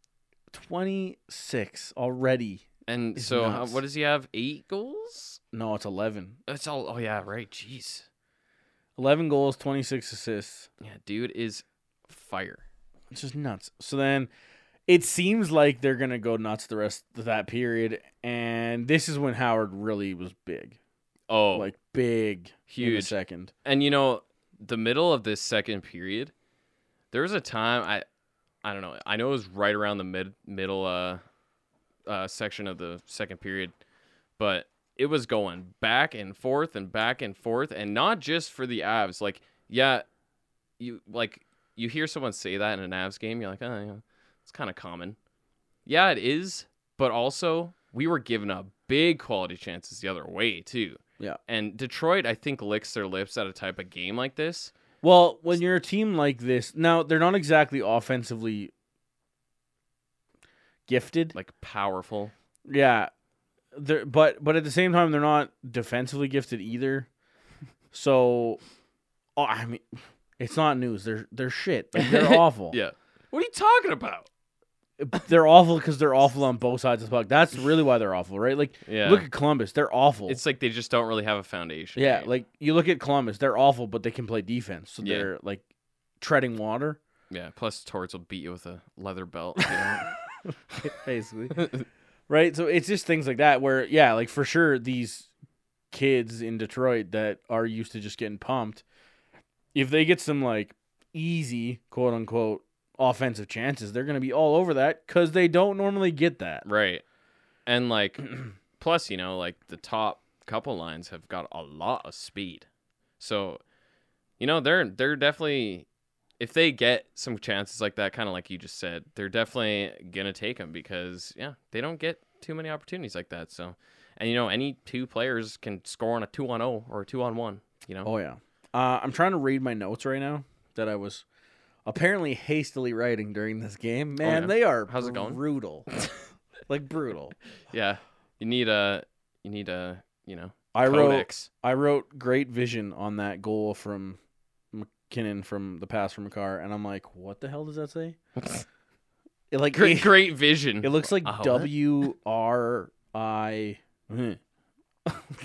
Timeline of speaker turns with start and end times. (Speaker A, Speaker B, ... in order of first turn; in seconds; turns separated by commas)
Speaker A: 0.5-3.8, Speaker B: 2.9-5.4, Speaker A: 5.5-6.4, Speaker B: 6.5-8.1, Speaker A: 9.0-10.7, Speaker B: 10.8-12.6, Speaker A: 13.1-14.3, Speaker A: 14.9-20.8, Speaker B: 21.3-21.7, Speaker A: 21.5-23.5, Speaker B: 22.7-26.3, Speaker B: 27.1-28.1, Speaker B: 28.6-31.2, Speaker B: 32.1-33.8, Speaker B: 34.4-40.0, Speaker B: 40.8-45.2, Speaker B: 45.9-54.7, Speaker A: 55.0-58.7, Speaker A: 60.9-61.4, Speaker B: 61.3-62.3, Speaker A: 62.7-63.1, Speaker A: 63.7-67.1, Speaker A: 67.9-68.6, Speaker A: 69.4-72.8, Speaker B: 72.0-74.3, Speaker A: 75.0-80.4, Speaker B: 78.9-79.3, Speaker B: 80.3-82.3, Speaker A: 82.0-85.6, Speaker B: 85.0-85.3, Speaker A: 86.2-87.0, Speaker B: 87.3-90.1, Speaker A: 89.7-90.1, Speaker A: 90.8-91.7, Speaker B: 91.5-91.8, Speaker A: 92.3-95.3, Speaker A: 95.9-98.8, Speaker A: 99.7-106.7, Speaker B: 106.7-107.0, Speaker B: 107.7-108.3, Speaker B: 108.8-112.7, Speaker B: 113.2-113.6, Speaker B: 114.4-115.9, Speaker B: 116.4-128.1, Speaker A: 128.1-131.2, Speaker A: 131.9-135.9, Speaker B: 134.2-135.4, Speaker A: 136.7-137.4, Speaker B: 137.7-141.5, Speaker A: 140.7-144.2, Speaker A: 144.7-148.2, Speaker B: 148.4-148.7, Speaker A: 149.5-150.2, Speaker B: 149.7-151.7, Speaker A: 150.8-154.4